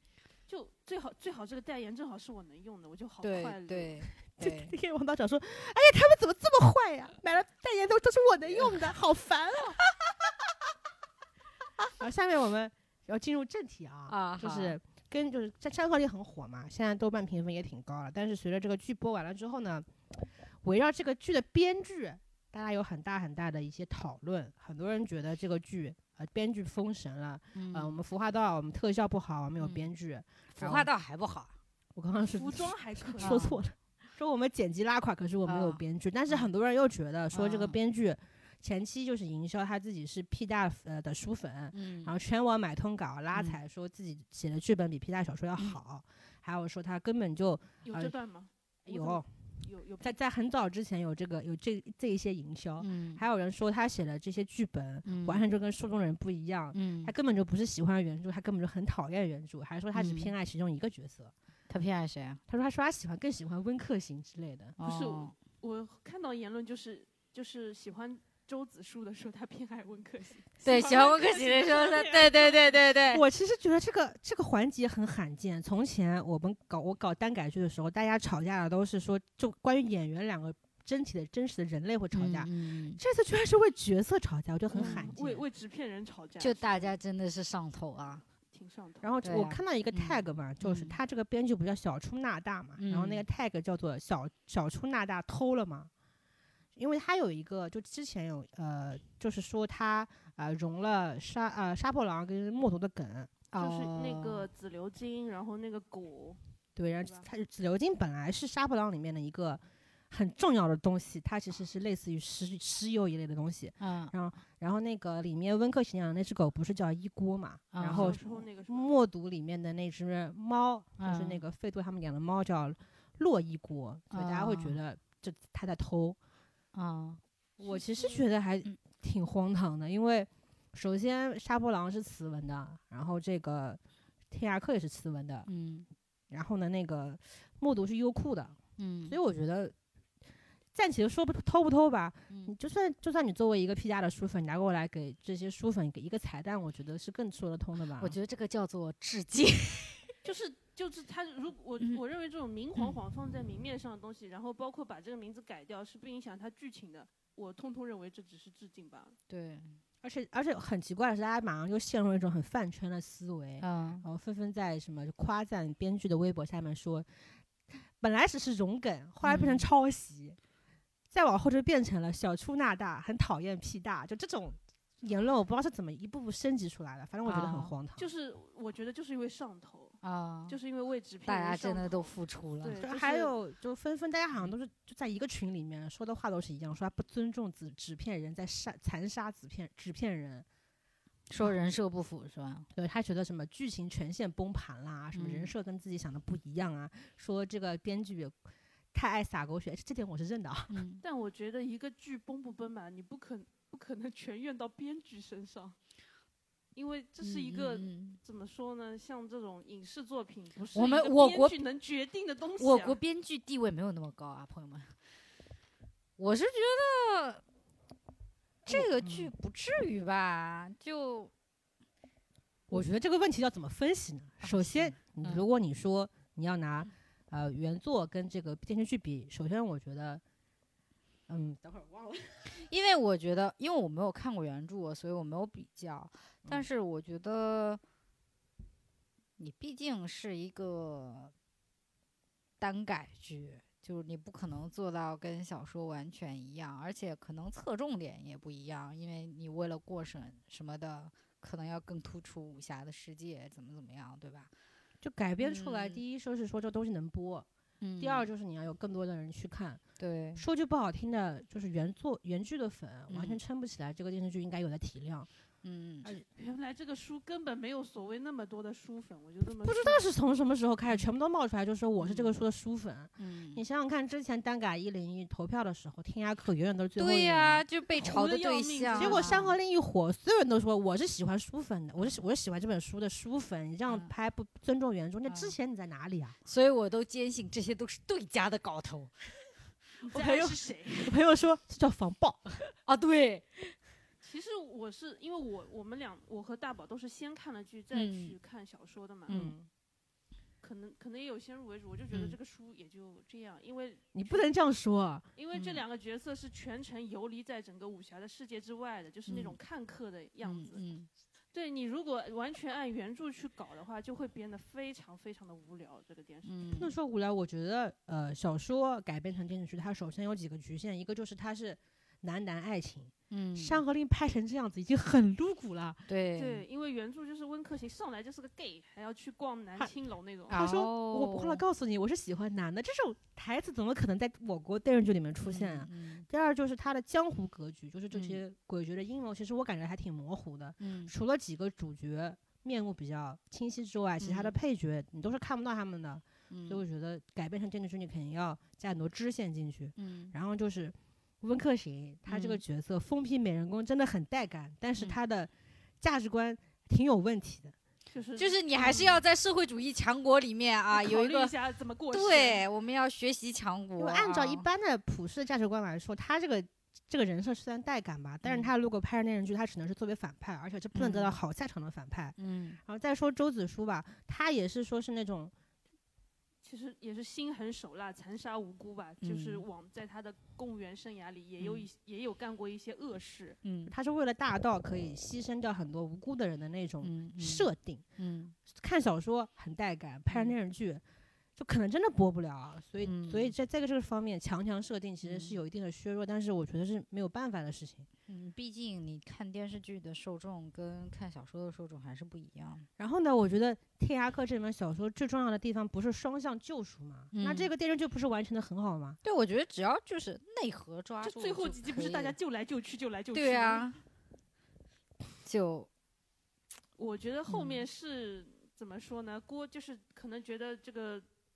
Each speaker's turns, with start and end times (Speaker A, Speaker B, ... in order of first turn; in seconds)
Speaker A: 0.5-4.0, 32.3-33.5, 47.8-50.1, 64.8-72.9, 84.7-87.0, 88.5-89.1, 103.5-106.4, 107.0-107.3, 117.8-118.9, 127.6-128.2, 150.2-159.1, 178.0-183.3, 201.0-205.8, 206.7-213.0, 266.4-270.1, 277.9-279.5, 290.0-291.2, 294.2-299.5, 300.6-304.4, 305.4-310.8, 311.5-316.6, 326.4-330.6, 358.1-359.2, 360.9-362.6, 376.6-383.6, 411.2-413.9, 417.0-421.2
Speaker B: 3.2-4.7, 8.5-8.8, 14.1-14.8, 27.5-28.0, 29.6-29.9, 30.5-31.5, 33.2-33.6, 35.5-36.5, 37.3-37.8, 41.7-42.1, 43.3-43.6, 52.8-53.2, 55.0-55.4, 56.7-57.1, 59.9-60.3, 61.7-62.4, 64.8-65.3, 70.6-73.2, 82.1-83.0, 84.7-85.0, 86.4-88.2, 89.2-91.0, 92.8-93.2, 103.5-104.5, 113.8-114.1, 117.7-118.2, 121.0-121.4, 124.1-124.8, 126.7-127.2, 135.4-135.9, 138.8-139.2, 148.0-150.1, 159.3-159.8, 163.6-164.0, 169.2-169.7, 177.2-177.7, 180.0-180.6, 181.2-182.8, 191.3-192.7, 195.1-195.5, 200.7-201.0, 207.2-208.2, 210.7-211.6, 212.6-214.9, 216.2-217.4, 218.6-221.3, 224.4-225.4, 232.5-237.8, 239.4-241.3, 242.6-254.5, 255.4-256.0, 257.8-258.3, 260.0-260.4, 263.1-263.4, 265.6-266.1, 272.0-272.3, 273.2-273.6, 277.0-279.5, 285.3-285.5, 286.4-289.1, 292.8-293.8, 297.9-298.4, 299.3-299.5, 305.5-305.8, 309.3-309.6, 310.4-311.1, 316.4-316.9, 323.3-323.8, 326.1-326.6, 330.5-331.6, 335.4-336.3, 338.1-338.4, 340.8-341.1, 344.2-344.6, 346.5-346.8, 349.9-350.3, 352.3-352.6, 358.4-361.5, 362.1-364.6, 368.4-368.7, 370.9-371.4, 372.4-372.8, 379.2-379.6, 381.6-381.9, 383.6-383.9, 387.0-388.5, 390.3-390.5, 393.0-393.5, 395.2-395.6, 398.3-402.9, 407.3-407.7, 409.2-412.3, 413.3-414.0, 415.4-415.9, 417.5-417.8
Speaker C: 4.3-9.8, 12.0-19.9, 20.6-30.9, 31.9-48.1, 48.9-49.2, 50.0-61.3, 62.5-64.8, 73.1-85.4, 89.0-95.9, 96.7-103.4, 106.8-126.2, 127.6-133.8, 134.3-135.5, 136.3-138.6, 139.1-139.7, 140.7-148.2, 160.0-167.1, 168.0-170.4, 171.1-178.1, 182.8-190.4, 192.7-198.3, 198.9-200.8, 218.7-219.3, 222.7-230.2, 231.3-232.3, 255.0-257.5, 258.0-259.8, 260.4-265.3, 269.6-277.6, 278.9-286.4, 290.1-292.4, 299.3-299.7, 304.1-305.2, 316.7-326.0, 330.5-357.7, 364.0-375.5, 383.9-388.0, 388.7-391.0, 391.6-398.1, 403.0-409.2